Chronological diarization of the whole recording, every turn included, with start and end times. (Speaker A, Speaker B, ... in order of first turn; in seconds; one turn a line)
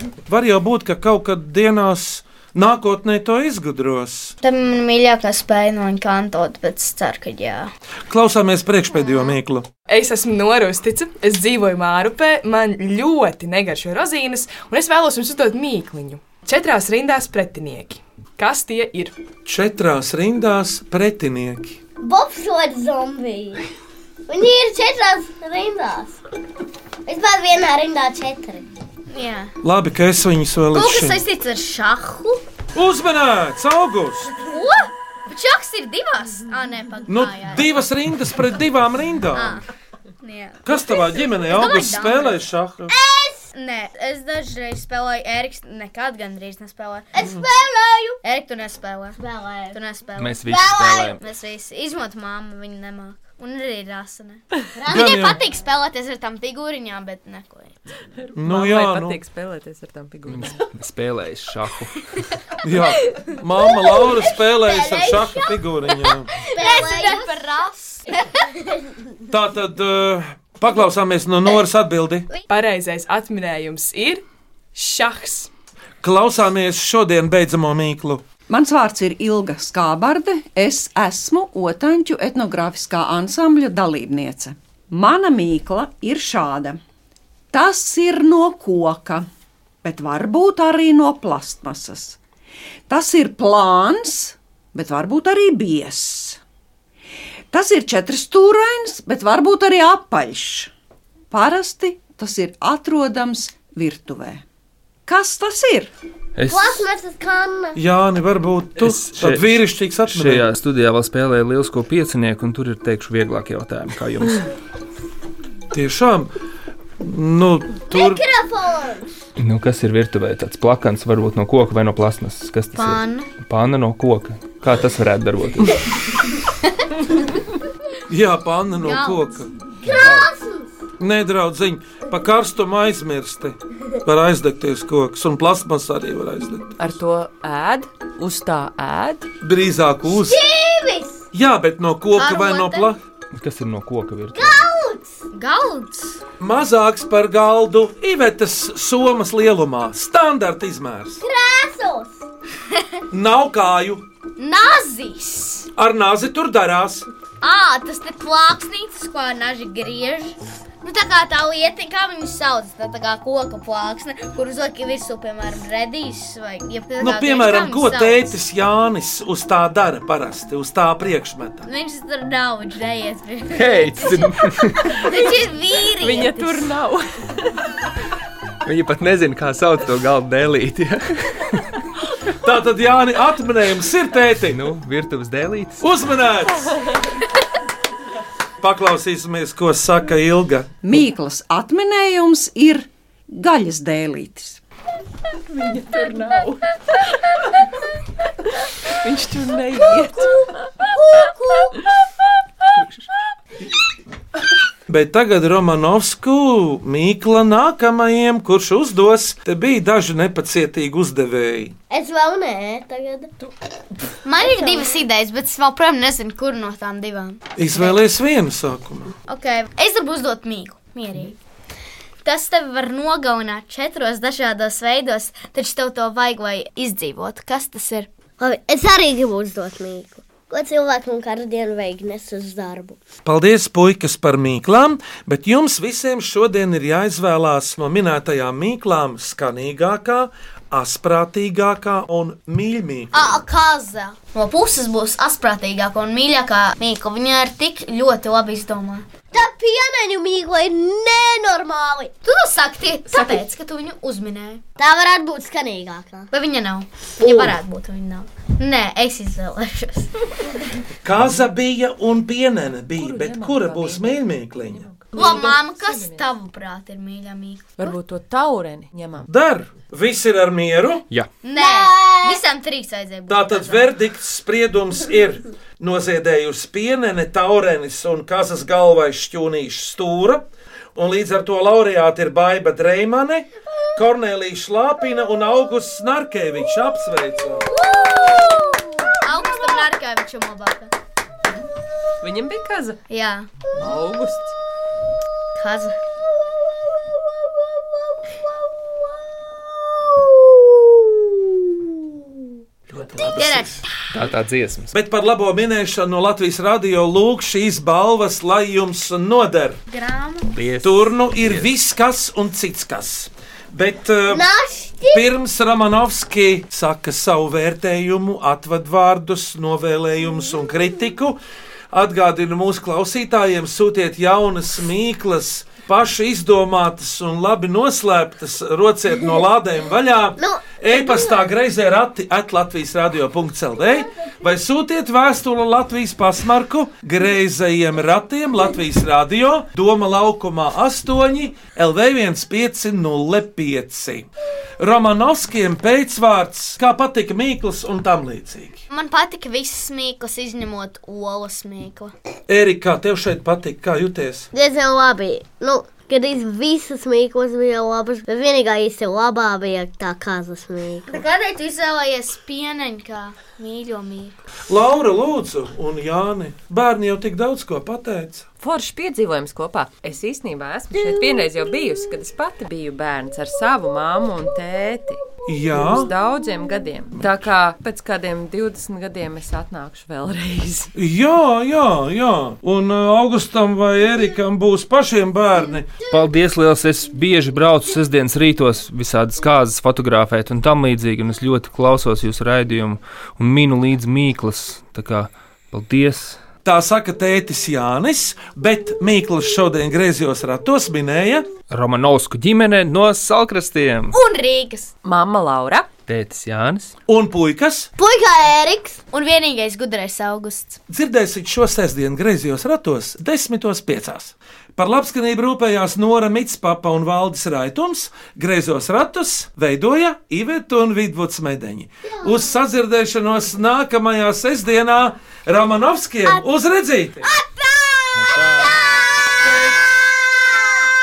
Speaker A: 0.3-4.3
Speaker B: 4.4-7.7
Speaker A: 8.1-9.7
Speaker B: 8.9-9.3
Speaker C: 9.8-19.1
Speaker A: 19.4-21.8
Speaker D: 22.0-23.6
Speaker D: 24.3-26.2
Speaker D: 27.1-28.6
Speaker B: 29.1-29.5
Speaker A: 29.6-31.2
Speaker B: 30.7-32.4
Speaker A: 32.7-34.3
Speaker B: 34.5-37.8
Speaker A: 37.1-39.6
Speaker B: 39.3-39.6
Speaker B: 40.2-40.6
Speaker A: 40.6-42.9
Speaker B: 41.5-42.5
Speaker D: 42.9-43.5
Speaker B: 43.5-47.1
Speaker D: 47.1-48.2
Speaker B: 48.2-49.2
Speaker D: 49.2-49.8
Speaker B: 49.7-50.6
Speaker E: 50.2-51.2
Speaker D: 50.5-51.2
Speaker B: 51.1-57.8
Speaker D: 54.7-55.3
Speaker A: 54.9-55.4
Speaker F: 58.2-60.6
Speaker A: 58.3-59.2
Speaker E: 60.3-62.0
Speaker A: 62.6-66.3
Speaker D: 63.7-65.6
Speaker D: 66.4-67.4
Speaker B: 66.5-68.2
Speaker A: 69.3-72.2
Speaker C: 72.5-74.2
Speaker C: 74.7-75.5
Speaker A: 76.0-78.2
Speaker G: 78.5-86.8
Speaker G: 87.5-89.3
Speaker G: 89.8-92.2
Speaker G: 92.9-96.4
Speaker G: 97.5-100.7
Speaker G: 101.3-104.4
Speaker G: 105.0-105.9
Speaker E: 106.4-106.8
Speaker D: 106.5-107.8
Speaker A: 107.7-110.5
Speaker E: 108.8-114.4
Speaker A: 115.7-116.3
Speaker A: 117.0-118.2
Speaker D: 117.9-119.1
Speaker E: 119.4-125.8
Speaker B: 122.7-123.3
Speaker A: 128.1-129.5
Speaker B: 128.8-129.4
Speaker D: 129.8-130.7
Speaker E: 129.8-130.3
Speaker A: 131.0-136.7
Speaker F: 136.8-139.3
Speaker A: 139.4-140.4
Speaker D: 140.1-141.2
Speaker A: 141.3-143.0
Speaker B: 142.1-142.9
Speaker E: 143.3-144.6
Speaker D: 144.3-145.2
Speaker B: 145.3-146.2
Speaker A: 146.4-151.2
Speaker D: 151.2-152.2
Speaker A: 153.1-154.0
Speaker B: 154.4-155.7
Speaker A: 155.8-157.1
Speaker B: 157.4-168.3
Speaker A: 167.0-171.6
Speaker B: 171.6-176.7
Speaker E: 173.5-175.1
Speaker F: 176.0-177.5
Speaker E: 178.7-181.8
Speaker A: 182.4-184.6
Speaker E: 184.5-185.8
Speaker A: 185.8-186.7
Speaker A: 188.6-190.7
Speaker G: 190.8-194.6
Speaker F: 195.5-196.7
Speaker F: 198.9-200.3
Speaker D: 200.1-201.8
Speaker A: 204.9-211.7
Speaker D: 211.9-213.3
Speaker B: 214.2-218.0
Speaker D: 214.4-215.0
Speaker A: 217.6-219.1
Speaker B: 219.3-221.4
Speaker B: 222.2-228.1
Speaker D: 228.4-233.0
Speaker A: 233.2-243.1
Speaker B: 243.1-249.1
Speaker D: 249.3-252.1
Speaker B: 252.2-254.6
Speaker D: 253.1-253.4
Speaker D: 254.8-256.3
Speaker B: 256.3-260.2
Speaker D: 257.2-257.6
Speaker A: 261.0-264.9
Speaker F: 263.0-266.3
Speaker B: 265.1-267.9
Speaker F: 267.8-269.3
Speaker A: 269.3-271.0
Speaker B: 271.4-273.9
Speaker D: 271.6-272.4
Speaker A: 273.3-287.7
Speaker D: 287.6-289.2
Speaker B: 289.2-290.9
Speaker F: 292.2-293.0
Speaker B: 293.1-293.5
Speaker F: 293.8-294.6
Speaker B: 295.6-295.9
Speaker A: 302.9-303.8
Speaker B: 303.3-303.9
Speaker E: 304.1-304.9
Speaker A: 304.9-309.8
Speaker B: 309.9-310.5
Speaker E: 310.5-311.7
Speaker A: 310.8-314.4
Speaker D: 314.3-315.3
Speaker A: 315.1-321.4
Speaker A: 321.9-344.3
Speaker D: 330.4-331.5
Speaker D: 333.8-334.5
Speaker A: 344.8-348.8
Speaker B: 348.9-352.1
Speaker A: 352.5-354.5
Speaker D: 354.5-361.2
Speaker B: 361.1-364.3
Speaker A: 364.7-368.4
Speaker F: 368.6-380.9
Speaker D: 371.0-371.7
Speaker A: 375.5-376.1
Speaker A: 380.9-386.0
Speaker E: 386.0-396.4
Speaker A: 396.6-401.5
Speaker E: 401.7-404.2
Speaker B: 404.1-404.9
Speaker F: 405.0-405.9
Speaker E: 406.1-406.9
Speaker A: 407.1-407.9
Speaker D: 408.0-409.0
Speaker B: 409.1-410.8
Speaker A: 410.9-427.2
Speaker D: 422.0-422.6
Speaker D: 427.2-430.8
Speaker E: 428.1-428.8